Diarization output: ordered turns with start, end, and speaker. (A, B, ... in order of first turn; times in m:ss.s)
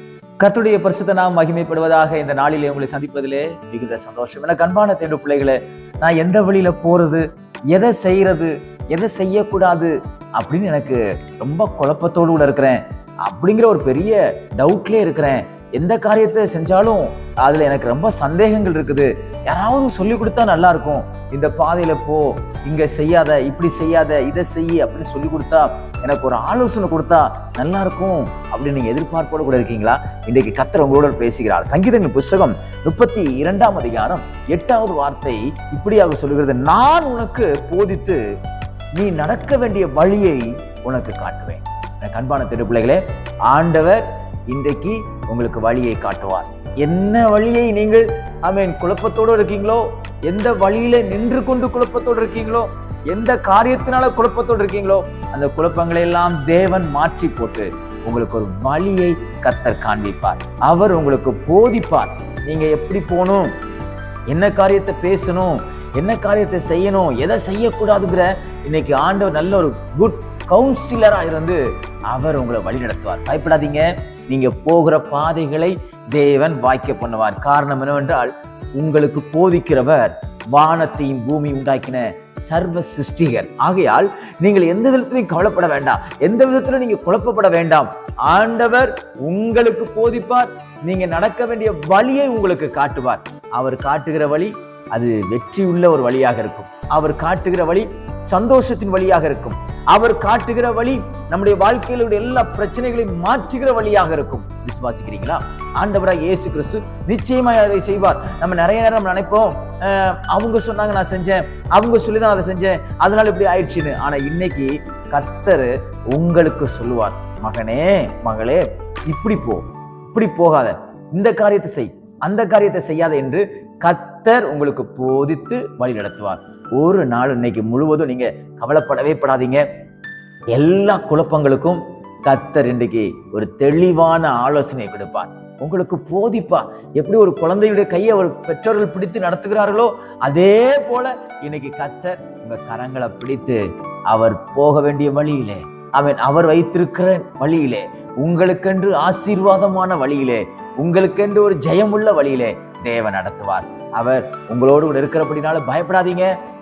0:00.4-0:38.2 A
0:38.9-1:03.5 A
1:04.3-2:09.6 A
2:10.5-2:23.6 A
2:24.1-2:36.3 A